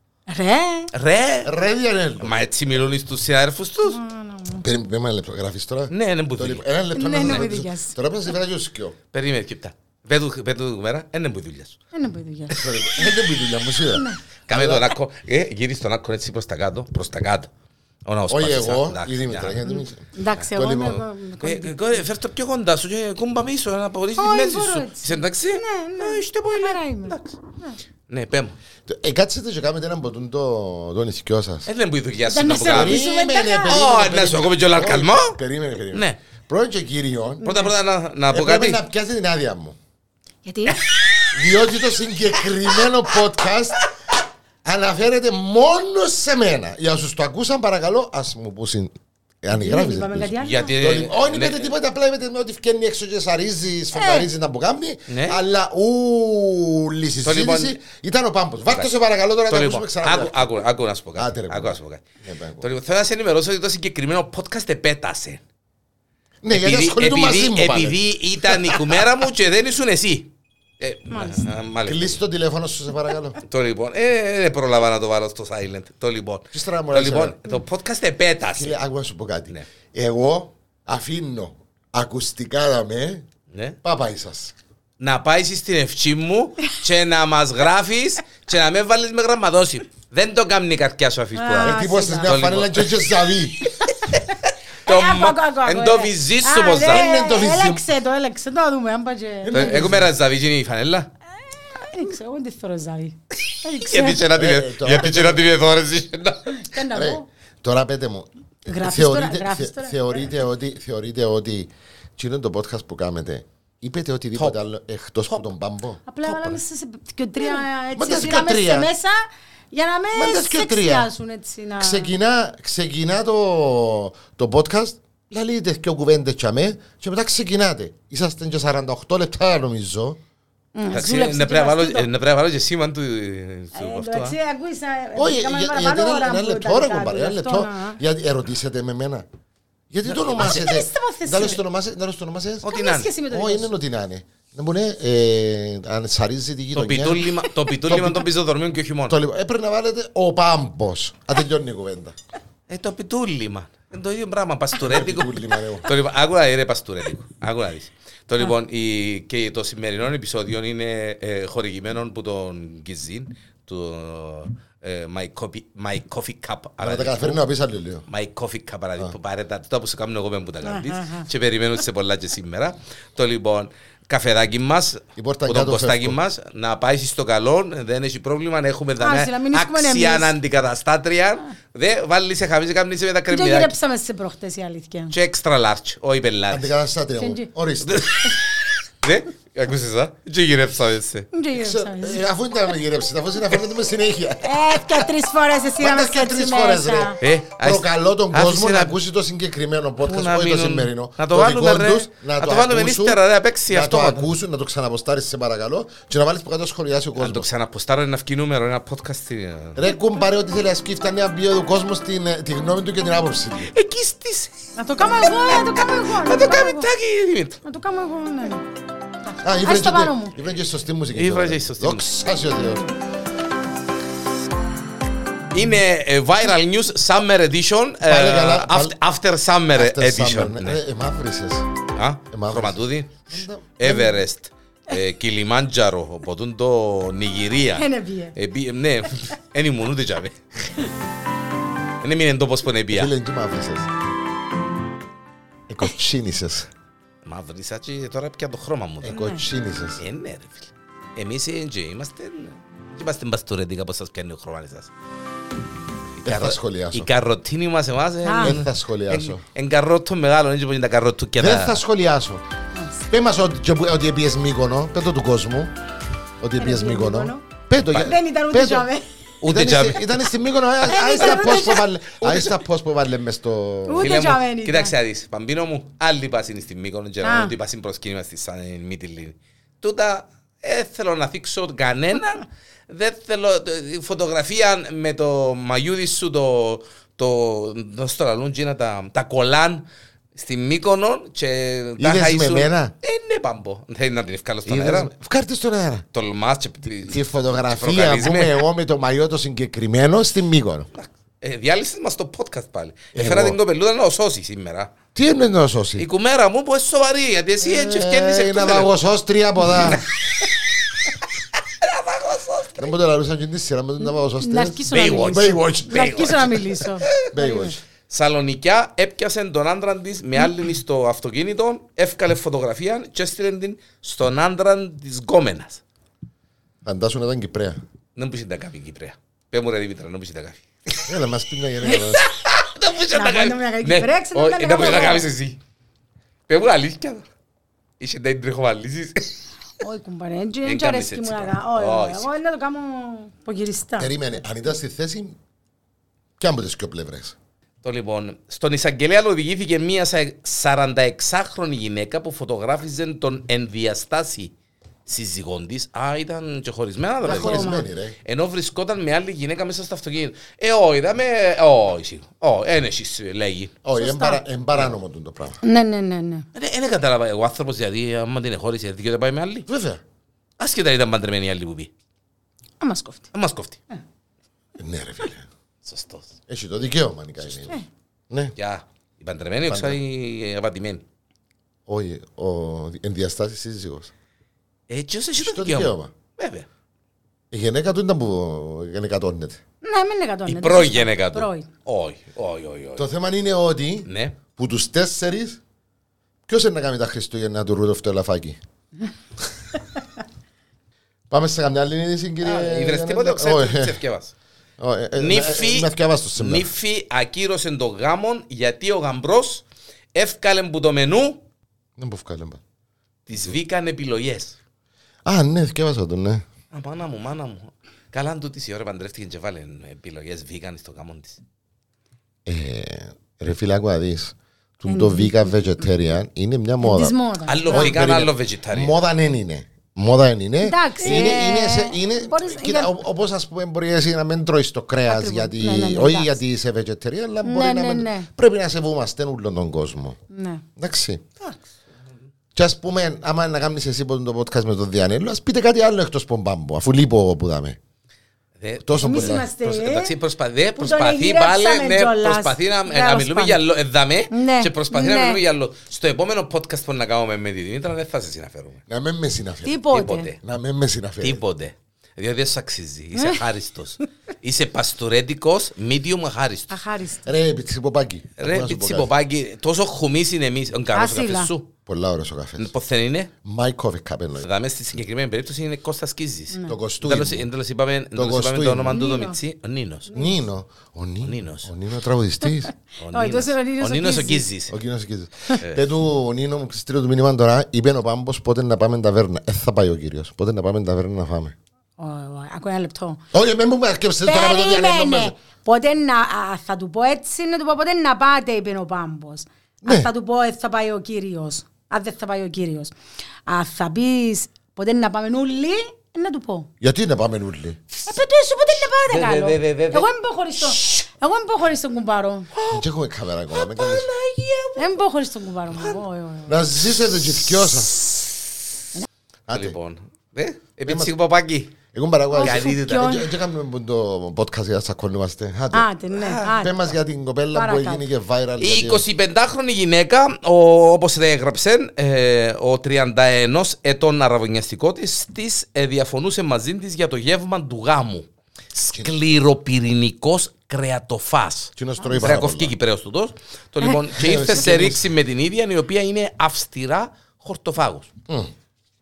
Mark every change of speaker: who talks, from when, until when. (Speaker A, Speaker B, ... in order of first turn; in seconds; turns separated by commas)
Speaker A: 0.3-0.9, Speaker B: 0.9-1.5, Speaker C: 1.4-2.4, Speaker B: 2.2-4.0, Speaker A: 3.9-4.6, Speaker C: 4.6-8.9, Speaker B: 5.9-6.7, Speaker A: 6.9-8.0, Speaker B: 7.2-7.5, Speaker B: 9.1-11.8, Speaker A: 11.9-12.6, Speaker B: 12.5-13.1, Speaker C: 12.5-14.9, Speaker A: 13.8-14.2, Speaker B: 14.5-17.5, Speaker B: 18.1-19.8, Speaker C: 18.3-21.0, Speaker A: 19.6-22.1, Speaker B: 20.4-27.4, Speaker A: 24.1-27.8, Speaker B: 28.1-28.6, Speaker C: 28.9-31.7, Speaker B: 31.6-33.0, Speaker A: 32.3-33.8, Speaker C: 32.5-37.4, Speaker B: 33.6-35.4, Speaker B: 35.9-36.2, Speaker A: 37.4-37.7, Speaker B: 37.4-38.8, Speaker C: 38.3-39.8, Speaker A: 40.4-41.3, Speaker C: 41.3-43.9, Speaker C: 44.6-60.5, Speaker A: 49.5-50.7, Speaker B: 50.4-51.7, Speaker A: 53.9-54.3, Speaker B: 55.1-55.4, Speaker B: 57.2-57.8, Speaker B: 59.5-62.0, Speaker C: 61.1-62.7, Speaker B: 62.6-65.4, Speaker C: 66.4-69.1, Speaker B: 66.5-72.2, Speaker A: 71.1-71.5, Speaker C: 71.8-73.4, Speaker B: 73.4-78.8, Speaker C: 76.5-77.3, Speaker C: 78.5-83.2, Speaker B: 83.5-83.8, Speaker C: 83.8-84.5, Speaker B: 85.0-93.1, Speaker A: 91.3-92.3, Speaker C: 91.5-93.7, Speaker B: 93.6-97.1, Speaker A: 94.8-100.0, Speaker C: 96.8-97.8, Speaker C: 99.5-100.1, Speaker B: 99.5-101.1, Speaker A: 101.7-104.2, Speaker B: 103.5-106.6, Speaker C: 104.3-105.5, Speaker A: 106.5-107.2, Speaker C: 106.9-116.0, Speaker A: 108.7-110.2, Speaker A: 116.1-122.1, Speaker B: 116.2-116.6, Speaker C: 117.9-118.9, Speaker C: 120.1-121.1, Speaker C: 121.8-130.2, Speaker A: 130.7-132.1, Speaker B: 130.9-134.3, Speaker A: 133.7-138.0, Speaker C: 135.2-139.2, Speaker C: 139.9-142.7, Speaker B: 140.1-140.6, Speaker A: 140.4-141.6, Speaker B: 142.6-143.1, Speaker A: 142.7-143.7, Speaker C: 143.3-148.3, Speaker B: 146.7-149.2, Speaker C: 149.1-152.1, Speaker B: 152.7-167.4, Speaker C: 154.8-155.9, Speaker C: 166.8-168.1, Speaker B: 168.1-183.7, Speaker A: 170.6-171.3, Speaker C: 175.2-176.2, Speaker A: 179.0-180.3, Speaker A: 183.3-185.1, Speaker B: 185.1-186.7, Speaker C: 186.5-188.2, Speaker A: 187.2-187.5, Speaker B: 187.8-191.3, Speaker A: 191.3-192.2, Speaker C: 191.5-195.1, Speaker A: 194.4-197.2, Speaker C: 195.8-207.4, Speaker B: 197.2-198.9, Speaker B: 200.0-204.3, Speaker B: 207.2-209.8, Speaker C: 209.8-213.7, Speaker B: 213.7-217.6, Speaker A: 214.8-216.9, Speaker A: 217.6-218.6, Speaker A: 219.2-220.3, Speaker C: 219.4-222.9, Speaker B: 221.1-222.1, Speaker B: 225.5-230.8, Speaker C: 228.1-228.9, Speaker C: 229.7-231.7, Speaker B: 231.9-240.8, Speaker C: 232.3-233.8, Speaker A: 233.8-234.2, Speaker A: 237.7-238.3, Speaker B: 242.0-243.1, Speaker C: 242.9-243.9, Speaker C: 245.7-246.7, Speaker B: 247.2-249.2, Speaker C: 249.0-250.0, Speaker A: 249.1-249.4, Speaker B: 250.0-254.9, Speaker B: 256.2-261.8, Speaker C: 256.2-257.1, Speaker A: 258.2-258.6, Speaker C: 258.4-259.4, Speaker C: 261.4-262.4, Speaker A: 262.7-263.0, Speaker C: 263.1-265.7, Speaker C: 266.4-268.9, Speaker A: 266.6-269.1, Speaker B: 267.8-268.1, Speaker B: 269.4-270.2, Speaker C: 269.4-274.1, Speaker B: 270.9-272.6, Speaker A: 270.9-271.9, Speaker A: 273.9-274.9, Speaker B: 274.0-295.1, Speaker A: 277.2-277.5, Speaker C: 292.0-292.9, Speaker C: 294.6-296.1, Speaker B: 296.1-298.6, Speaker C: 297.1-300.9, Speaker B: 300.9-304.9, Speaker C: 303.1-303.6, Speaker C: 305.1-306.1, Speaker B: 306.0-308.9, Speaker C: 307.6-310.0, Speaker B: 309.8-310.0, Speaker B: 311.1-312.9, Speaker C: 312.8-316.5, Speaker A: 314.0-317.7, Speaker B: 314.9-317.1, Speaker C: 317.3-317.8, Speaker B: 318.1-325.8, Speaker C: 326.8-327.8, Speaker B: 328.1-331.1, Speaker C: 331.1-332.3, Speaker B: 331.8-335.6, Speaker A: 333.1-335.3, Speaker B: 336.5-337.2, Speaker B: 338.0-339.4, Speaker A: 339.8-344.1, Speaker B: 340.6-342.3, Speaker C: 344.0-345.4, Speaker C: 346.4-347.4, Speaker B: 347.8-354.5, Speaker B: 355.1-363.7, Speaker C: 357.2-358.2, Speaker A: 357.3-357.9, Speaker C: 363.8-365.6, Speaker A: 363.9-364.4, Speaker A: 365.6-366.5, Speaker B: 366.5-369.7, Speaker C: 369.7-370.0, Speaker B: 370.6-371.9, Speaker A: 372.8-373.3, Speaker B: 373.3-373.8, Speaker C: 374.8-375.5, Speaker B: 375.8-376.3, Speaker C: 376.5-378.5, Speaker B: 378.6-381.0, Speaker C: 379.7-380.0, Speaker C: 381.9-384.1, Speaker B: 384.9-386.7, Speaker C: 385.4-386.1, Speaker C: 387.5-389.6, Speaker A: 389.8-391.7, Speaker B: 390.4-393.1, Speaker C: 392.9-395.6, Speaker B: 394.1-394.4, Speaker C: 396.5-398.6, Speaker C: 401.3-404.0, Speaker B: 402.4-404.3, Speaker C: 404.8-406.7, Speaker B: 405.2-411.4, Speaker C: 412.0-412.6, Speaker B: 413.3-414.6, Speaker C: 415.2-416.4, Speaker B: 416.7-421.4, Speaker C: 422.4-427.1, Speaker A: 424.9-425.6, Speaker A: 426.8-427.9, Speaker B: 427.5-428.9, Speaker C: 427.7-440.2, Speaker A: 430.6-432.9, Speaker B: 431.1-431.4, Speaker A: 435.1-436.4, Speaker A: 437.4-438.3, Speaker A: 440.3-440.6, Speaker C: 440.8-441.2, Speaker C: 442.5-447.8, Speaker B: 448.6-458.8, Speaker C: 448.8-449.5, Speaker A: 449.0-450.1, Speaker A: 450.8-453.6, Speaker A: 454.3-455.4, Speaker C: 458.9-459.8, Speaker A: 459.6-460.3, Speaker B: 459.9-460.4, Speaker C: 460.4-461.4, Speaker B: 461.2-466.8, Speaker A: 463.1-463.4, Speaker A: 466.7-467.2, Speaker C: 467.2-469.1, Speaker B: 468.4-471.7, Speaker A: 470.9-471.5, Speaker C: 471.9-472.7, Speaker B: 472.6-473.3, Speaker C: 473.4-474.5, Speaker B: 474.4-480.1, Speaker A: 476.5-476.8, Speaker C: 476.7-477.5, Speaker C: 478.1-479.0, Speaker A: 478.9-479.4, Speaker A: 480.1-480.4, Speaker C: 480.1-482.7, Speaker B: 481.2-481.7, Speaker B: 483.0-484.7, Speaker A: 483.1-484.5, Speaker C: 484.7-491.6, Speaker B: 485.6-485.8, Speaker A: 492.0-493.2, Speaker C: 493.3-495.3, Speaker A: 494.2-502.9, Speaker C: 499.8-500.1, Speaker A: 503.4-506.7, Speaker C: 506.8-507.8, Speaker A: 508.1-512.5, Speaker B: 509.1-510.1, Speaker B: 510.6-511.1, Speaker B: 512.5-512.8, Speaker C: 512.7-514.1, Speaker B: 513.5-515.0, Speaker A: 514.8-516.7, Speaker B: 515.7-516.0, Speaker C: 516.5-518.1, Speaker C: 519.5-519.8, Speaker B: 519.5-521.8, Speaker C: 520.9-521.1, Speaker C: 521.9-525.9, Speaker A: 522.3-523.3, Speaker B: 522.4-523.2, Speaker A: 525.7-526.8, Speaker B: 526.1-526.6, Speaker C: 526.6-529.0, Speaker A: 527.5-528.0, Speaker B: 528.6-548.1, Speaker C: 541.8-542.7, Speaker C: 544.1-545.0